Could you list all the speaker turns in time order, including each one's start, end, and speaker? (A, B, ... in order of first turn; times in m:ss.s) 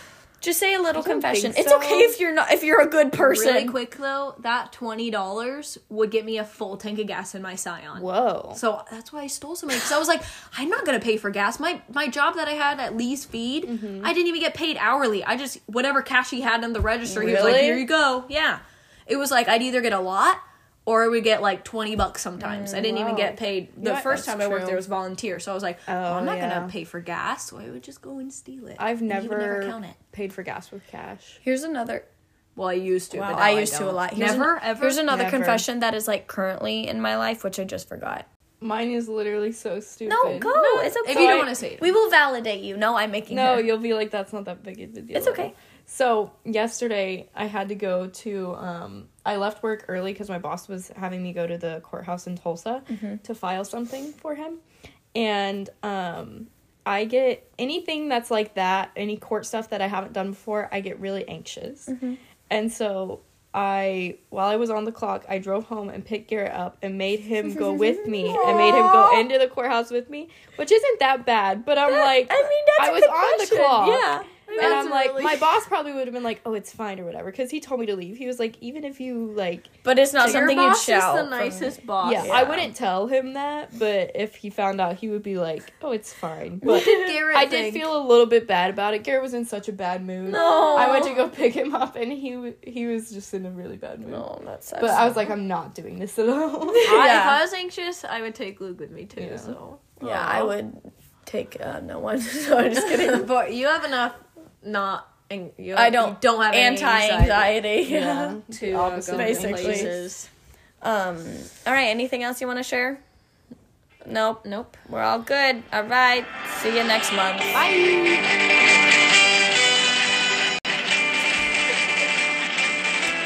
0:00.4-0:03.8 A
0:01.0-0:02.2 B
0:03.2-0:30.0 C
0:08.0-0:08.6 B
0:13.7-0:14.1 B
0:17.1-0:17.8 A
0:17.1-0:17.9 B
0:22.4-0:22.9 A
0:22.7-0:24.8 B
0:25.9-0:26.7 B
0:28.8-0:31.4 B
0:31.4-0:32.1 A
0:32.6-0:35.0 C
0:33.1-0:38.3 A
0:35.1-0:35.6 B
0:38.6-0:41.5 B
0:40.1-0:43.7 A
0:40.5-0:41.9 C
0:43.3-0:54.6 B
0:45.1-0:45.5 A
0:52.9-0:53.2 A
0:55.2-1:01.9 B
1:01.9-1:02.2 A
1:02.5-1:19.7 B
1:07.4-1:09.3 A
1:11.9-1:15.5 A
1:14.1-1:15.4 C
1:19.8-1:22.7 A
1:20.2-1:22.5 C
1:22.0-1:34.2 B
1:26.6-1:27.1 A
1:26.6-1:27.9 C
1:30.3-1:31.3 C
1:30.3-1:31.2 A
1:34.0-1:35.3 A
1:34.8-1:37.1 B
1:36.8-1:37.4 A
1:36.8-1:40.5 C
1:39.2-1:39.6 B
1:40.0-1:43.3 A
1:42.8-1:47.6 C
1:45.8-1:48.4 A
1:47.8-1:50.0 B
1:48.5-1:49.9 C
1:49.1-1:50.3 A
1:50.8-1:53.0 A
1:54.0-1:57.5 A
1:57.5-1:58.2 C